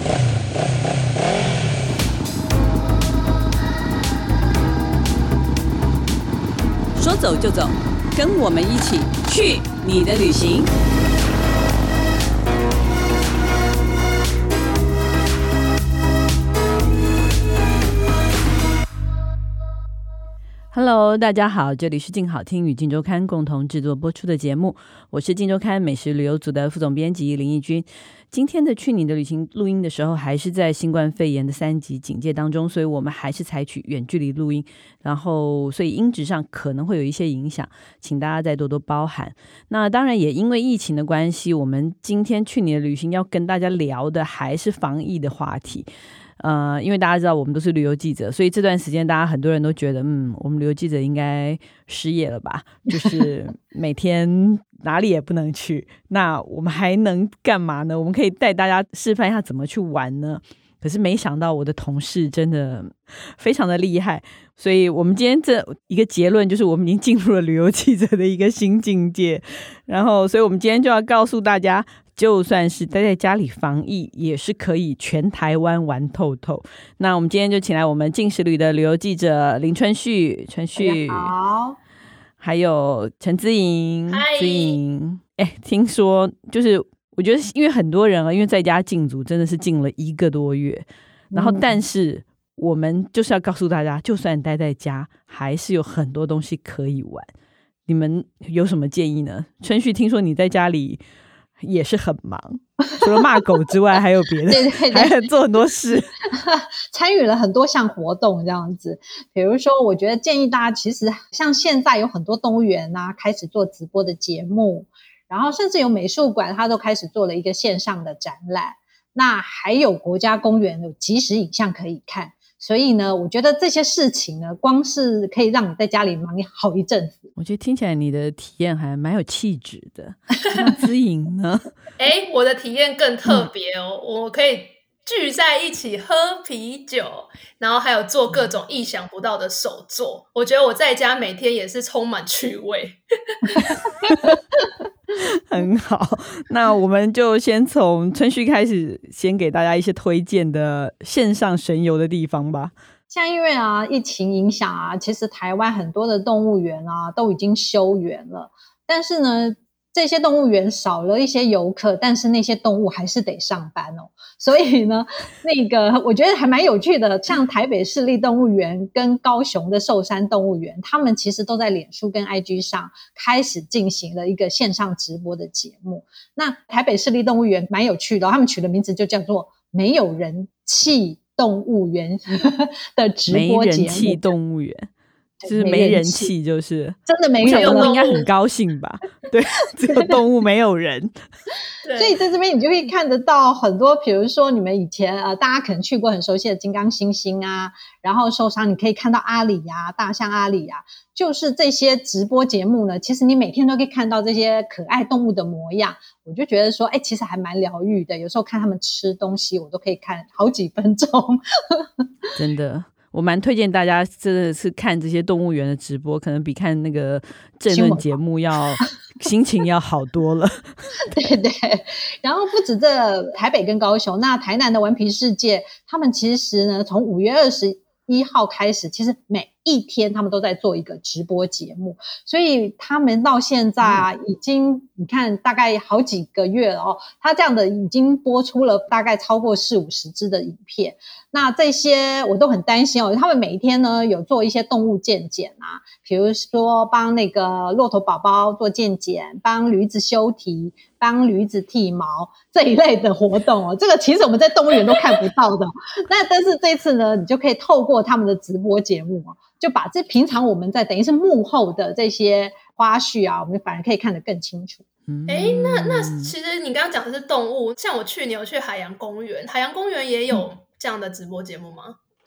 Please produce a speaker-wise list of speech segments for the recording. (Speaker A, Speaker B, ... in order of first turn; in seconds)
Speaker A: 7.0-10.7, 20.7-45.9, 46.4-81.3, 82.4-97.3, 97.9-101.0, 101.6-106.1, 127.4-131.7, 144.1-144.3, 145.2-152.7, 183.3-184.9, 185.4-191.1, 212.4-221.0, 233.8-234.1, 265.1-266.3
Speaker B: 80.8-81.8, 91.3-91.8, 104.5-105.3, 106.3-127.3, 153.1-184.3, 185.4-186.3, 187.1-188.2, 192.0-211.9, 217.7-218.1, 221.1-264.8
Speaker C: 84.1-84.8, 132.0-143.8, 187.4-188.3, 191.8-192.2, 265.3-272.0